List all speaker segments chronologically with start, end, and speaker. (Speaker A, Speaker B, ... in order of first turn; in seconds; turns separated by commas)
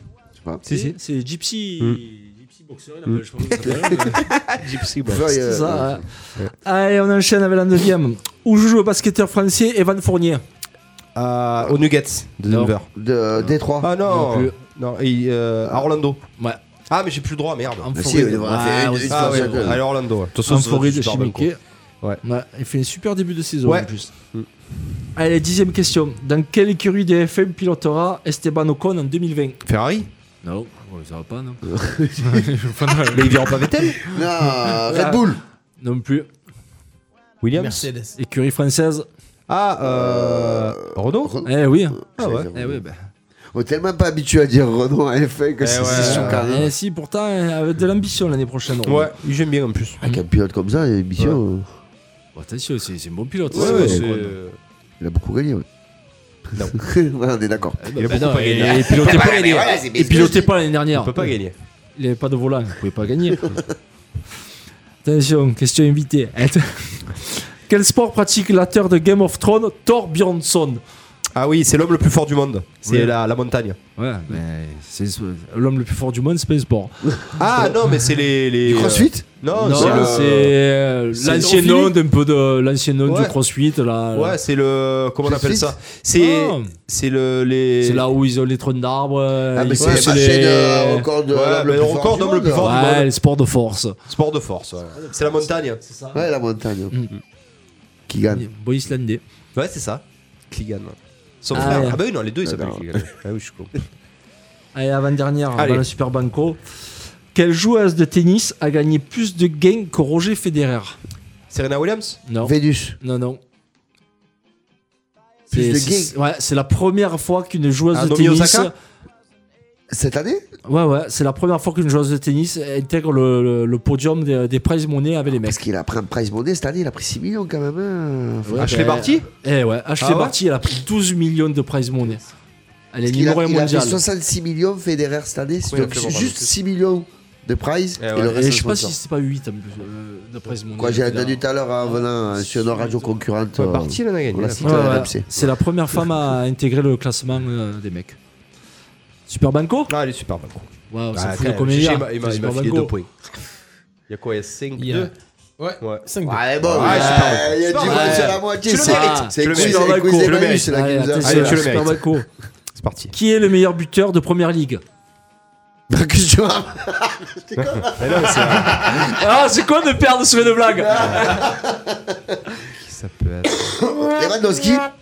Speaker A: 0.4-0.6, Speaker B: 0.7-4.3, Speaker C: 0.7-0.9, Speaker C: 3.1-5.3, Speaker A: 5.0-6.0, Speaker B: 5.3-6.1, Speaker B: 6.6-10.4, Speaker C: 11.2-12.9, Speaker B: 12.5-12.7, Speaker A: 12.9-13.9, Speaker C: 13.8-16.2, Speaker B: 14.1-14.6, Speaker C: 16.9-17.9, Speaker B: 17.8-19.8, Speaker A: 17.9-19.8, Speaker C: 19.1-21.5, Speaker B: 20.4-21.6, Speaker B: 22.2-24.1, Speaker C: 23.6-24.5, Speaker B: 25.1-29.6, Speaker C: 29.6-30.1, Speaker B: 30.4-33.6, Speaker A: 31.7-32.5, Speaker C: 33.1-34.0, Speaker A: 34.0-35.4, Speaker B: 34.7-35.2, Speaker B: 35.8-36.3, Speaker C: 37.4-37.9, Speaker D: 37.6-38.1, Speaker B: 38.1-39.1, Speaker C: 39.5-41.4, Speaker A: 39.8-42.8, Speaker B: 41.5-42.0, Speaker C: 42.2-42.5, Speaker B: 42.5-43.0, Speaker A: 43.5-46.7, Speaker C: 45.6-46.4, Speaker B: 45.9-49.1, Speaker C: 48.9-50.0, Speaker A: 50.0-51.7, Speaker B: 52.4-54.4, Speaker C: 53.5-54.6, Speaker A: 53.5-54.0, Speaker A: 55.0-55.6, Speaker C: 56.5-56.8, Speaker A: 56.7-60.5, Speaker B: 57.8-61.2, Speaker C: 58.0-59.6, Speaker C: 60.9-61.5, Speaker B: 62.0-63.4, Speaker B: 65.0-70.8, Speaker C: 71.3-73.8, Speaker B: 74.0-77.2, Speaker C: 77.4-80.2, Speaker A: 78.6-80.5, Speaker B: 79.5-84.3, Speaker D: 81.2-81.9, Speaker C: 83.1-83.3, Speaker C: 84.1-88.1, Speaker A: 85.2-85.7, Speaker B: 86.2-86.7, Speaker B: 87.8-91.1, Speaker A: 89.5-92.7, Speaker D: 89.8-90.2, Speaker C: 91.3-93.1, Speaker B: 92.6-94.0, Speaker C: 94.1-95.8, Speaker B: 95.0-96.2, Speaker A: 96.1-97.0, Speaker A: 98.1-98.5, Speaker B: 98.3-99.2, Speaker C: 99.5-103.8, Speaker B: 101.5-102.0, Speaker A: 102.4-103.0, Speaker B: 104.7-106.6, Speaker C: 105.6-105.8, Speaker B: 107.3-111.0, Speaker C: 111.5-112.2, Speaker B: 112.3-113.4, Speaker A: 112.4-113.0, Speaker A: 115.5-116.1, Speaker B: 115.5-118.7, Speaker C: 117.9-118.7, Speaker A: 119.9-120.4, Speaker B: 120.7-125.6, Speaker A: 125.4-128.8, Speaker B: 128.4-132.3, Speaker C: 128.6-129.3, Speaker C: 130.0-130.3, Speaker B: 132.9-134.0, Speaker A: 133.1-138.9, Speaker C: 135.7-136.5, Speaker C: 138.0-138.4, Speaker B: 138.3-141.4, Speaker A: 140.8-145.3, Speaker B: 142.7-142.9, Speaker C: 143.6-145.1, Speaker B: 144.6-148.2, Speaker B: 149.3-149.9, Speaker C: 149.9-153.1, Speaker B: 150.9-152.9, Speaker C: 154.1-155.1, Speaker D: 154.8-156.4, Speaker C: 155.8-156.1, Speaker A: 156.2-161.8, Speaker C: 156.7-162.1, Speaker B: 156.8-162.3, Speaker C: 162.7-163.1, Speaker B: 163.1-164.8, Speaker A: 165.9-169.0, Speaker C: 167.6-169.0, Speaker B: 168.8-171.4, Speaker A: 170.8-172.4, Speaker C: 170.9-171.4, Speaker C: 172.6-173.8, Speaker A: 173.7-174.9